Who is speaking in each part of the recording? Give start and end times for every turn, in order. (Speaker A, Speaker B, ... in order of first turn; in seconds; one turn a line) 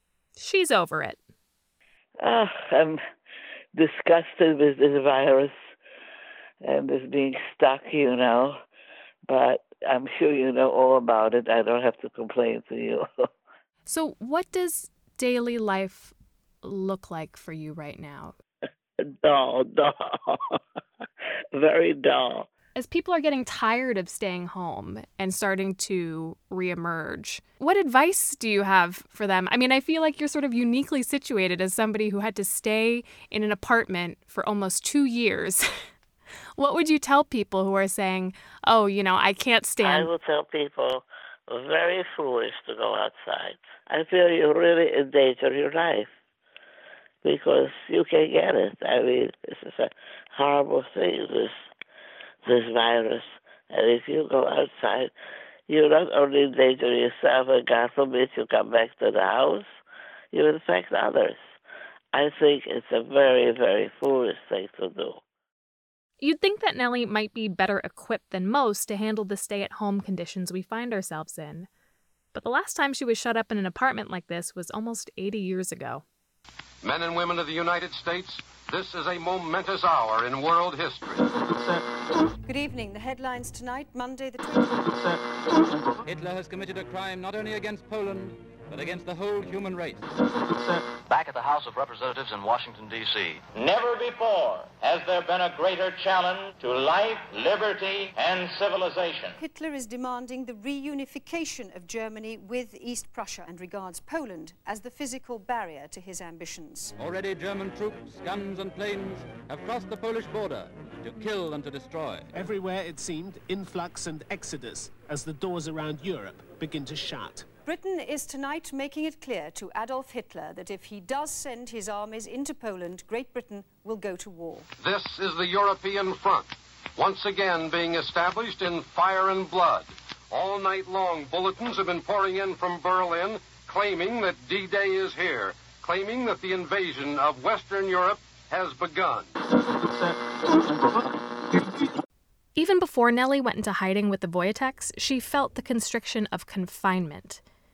Speaker A: 0.4-1.2
Speaker B: 2.2-3.0
Speaker B: 3.8-5.5
Speaker B: 6.6-8.6
Speaker B: 9.3-13.1
Speaker A: 13.9-18.4
Speaker B: 19.0-20.6
Speaker B: 21.6-22.5
Speaker A: 22.8-35.8
Speaker A: 36.6-40.1
Speaker B: 39.8-46.1
Speaker B: 47.2-51.5
Speaker B: 52.4-55.1
Speaker B: 55.7-59.7
Speaker B: 60.3-61.4
Speaker B: 62.1-65.2
Speaker A: 66.2-71.7
Speaker A: 72.3-76.0
Speaker C: 76.8-81.3
Speaker D: 82.4-85.2
Speaker E: 86.0-90.1
Speaker F: 91.1-93.4
Speaker E: 92.6-92.9
Speaker G: 93.6-99.3
Speaker D: 99.5-106.9
Speaker E: 107.0-112.3
Speaker H: 112.3-117.5
Speaker D: 117.7-124.7
Speaker C: 124.8-139.3
Speaker A: 142.6-147.4